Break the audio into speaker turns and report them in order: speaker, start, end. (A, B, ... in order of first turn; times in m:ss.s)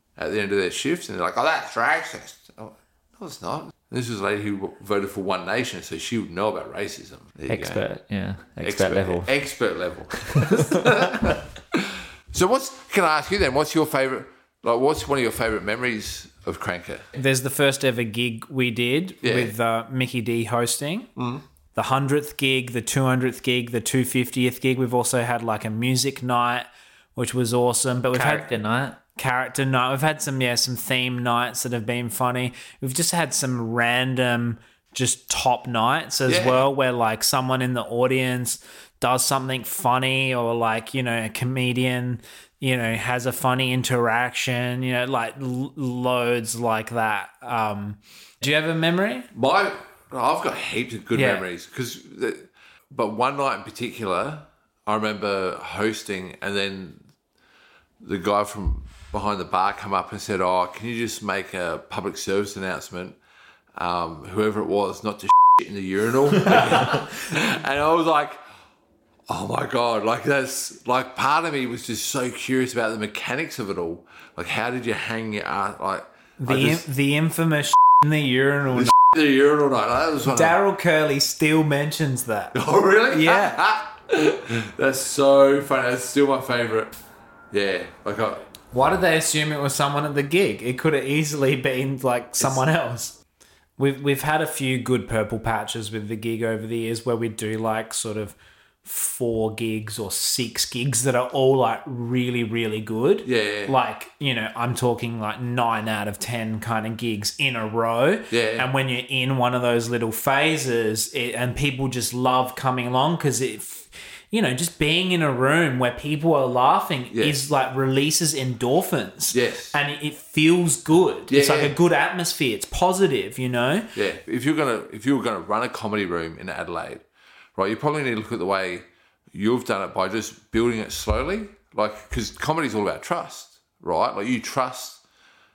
0:00.2-0:07.9 A
0:07.5-0:09.3 B
0:08.6-0:17.1 A
0:10.2-0:10.8 B
0:17.1-0:21.1 C
0:19.2-0:19.5 A
0:21.2-0:21.4 A
0:21.7-0:28.5 C
0:28.1-0:29.0 B
0:29.1-0:49.3 C
0:36.3-0:36.6 A
0:49.3-0:57.0 A
0:51.1-0:51.4 C
0:58.0-1:03.2 A
1:03.8-1:08.4 A
1:09.3-1:16.8 A
1:16.4-1:18.9 C
1:18.7-1:20.6 A
1:20.2-1:22.6 C
1:22.5-1:26.9 A
1:23.1-1:23.6 C
1:27.5-1:28.4 A
1:28.7-1:33.2 C
1:33.8-2:03.9 C
1:43.2-1:43.8 A
1:48.3-1:48.7 A
1:57.1-1:57.4 A
1:59.3-1:59.7 A
2:01.3-2:01.8 A
2:04.0-2:07.0 A
2:07.6-2:15.0 A